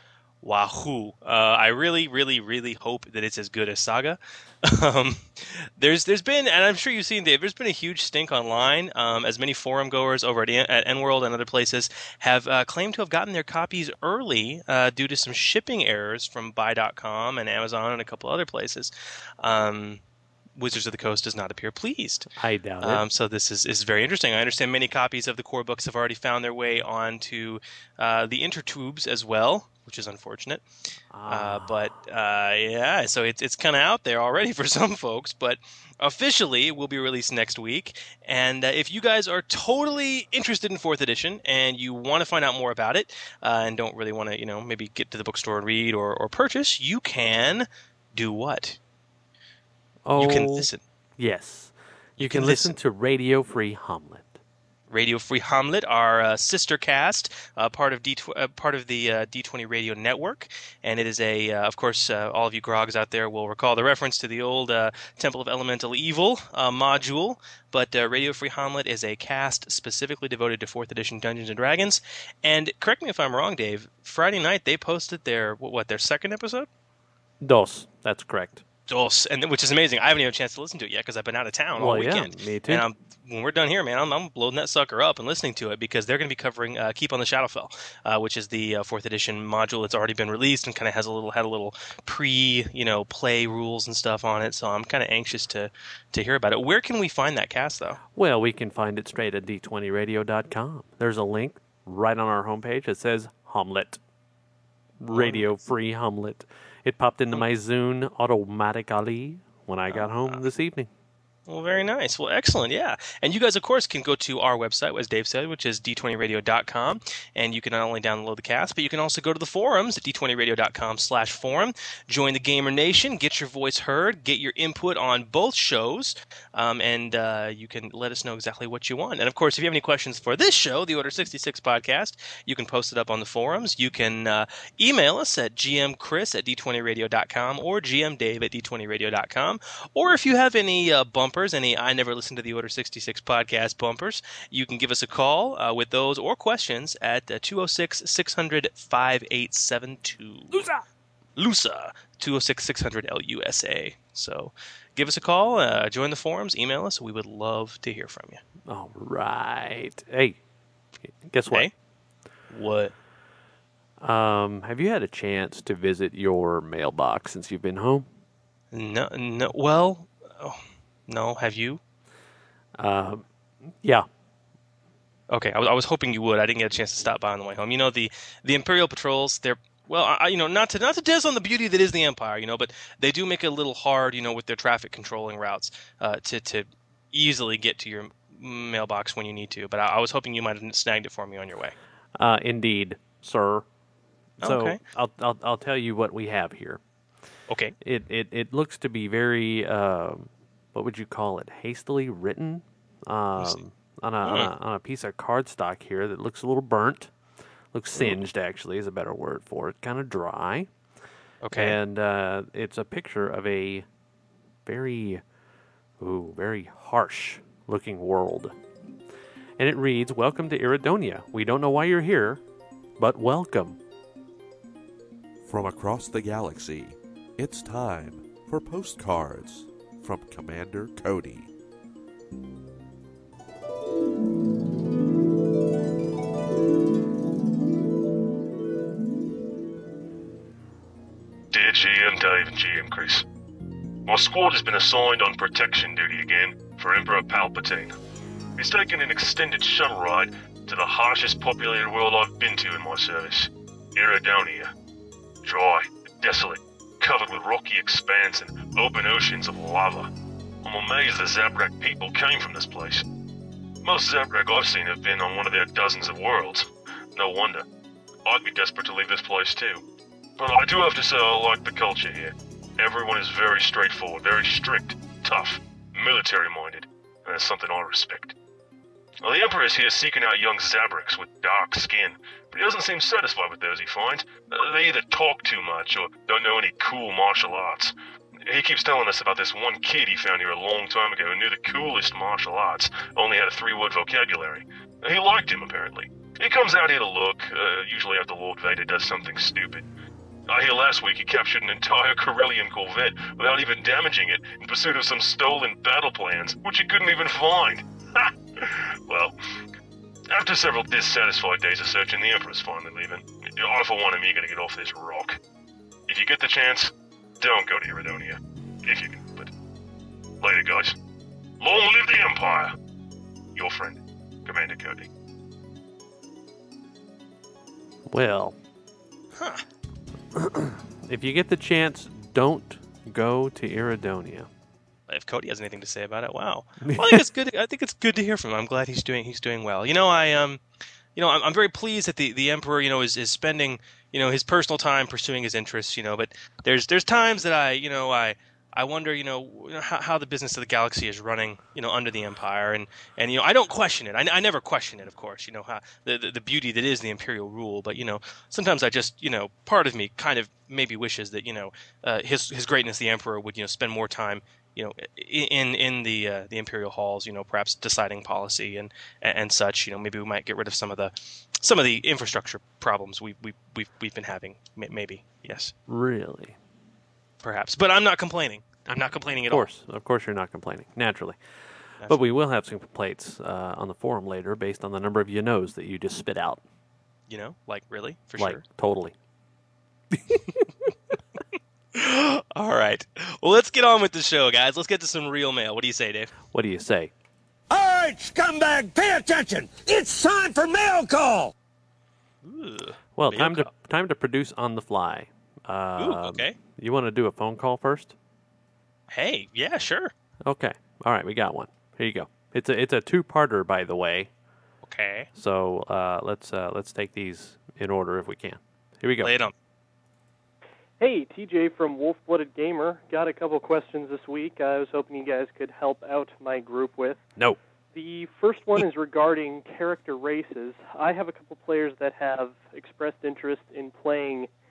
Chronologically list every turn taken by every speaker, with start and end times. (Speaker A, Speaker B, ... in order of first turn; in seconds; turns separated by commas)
Speaker A: 0.4-20.0, Speaker A: 20.6-22.3, Speaker B: 22.4-23.0, Speaker A: 22.8-30.6, Speaker B: 31.1-31.9, Speaker A: 31.3-48.8, Speaker B: 50.0-54.4, Speaker A: 50.2-50.8, Speaker A: 52.2-52.7, Speaker A: 54.9-76.7, Speaker B: 77.4-78.6, Speaker A: 78.9-98.0, Speaker B: 81.8-82.9, Speaker B: 98.2-104.0, Speaker B: 105.0-110.9, Speaker A: 105.1-105.5, Speaker A: 109.9-110.4, Speaker A: 111.5-150.6, Speaker B: 150.5-150.8, Speaker A: 151.4-158.4, Speaker B: 158.7-160.4, Speaker B: 161.2-161.7, Speaker A: 162.5-162.9, Speaker B: 164.0-168.1, Speaker A: 168.7-171.8, Speaker B: 172.8-173.2, Speaker B: 173.8-174.1, Speaker A: 175.3-191.8, Speaker B: 192.2-193.7, Speaker B: 194.4-196.8, Speaker A: 194.4-194.8, Speaker B: 197.8-207.1, Speaker A: 204.2-204.5, Speaker B: 207.7-210.7, Speaker A: 211.4-211.8, Speaker B: 211.5-213.9, Speaker B: 214.7-215.2, Speaker B: 216.0-218.5, Speaker B: 219.6-222.4, Speaker B: 223.0-223.8, Speaker C: 225.4-231.5, Speaker D: 241.5-243.3, Speaker D: 244.1-247.9, Speaker D: 248.6-254.7, Speaker D: 255.4-260.1, Speaker D: 260.6-263.1, Speaker D: 263.8-267.6, Speaker D: 268.2-269.8, Speaker D: 270.4-278.4, Speaker D: 279.2-287.9, Speaker D: 288.5-299.9, Speaker D: 300.5-309.4, Speaker D: 310.3-315.4, Speaker D: 316.1-319.5, Speaker D: 320.4-321.0, Speaker D: 321.6-322.8, Speaker D: 323.5-325.1, Speaker B: 328.1-328.6, Speaker A: 329.4-329.6, Speaker B: 330.3-334.5, Speaker A: 335.1-340.6, Speaker B: 336.9-337.2, Speaker A: 341.2-375.7, Speaker B: 375.9-376.6, Speaker A: 377.4-379.7, Speaker B: 379.5-381.4, Speaker B: 382.1-386.6, Speaker A: 387.3-388.6, Speaker B: 388.4-389.1, Speaker B: 390.1-390.6, Speaker A: 391.9-396.3, Speaker B: 396.5-397.1, Speaker E: 397.7-401.5, Speaker A: 402.4-403.7, Speaker B: 403.2-408.1, Speaker A: 406.0-406.6, Speaker A: 409.1-410.1, Speaker B: 410.5-414.3, Speaker A: 414.8-415.3, Speaker B: 415.4-419.3, Speaker A: 419.2-419.5, Speaker F: 421.0-427.2, Speaker F: 427.9-434.5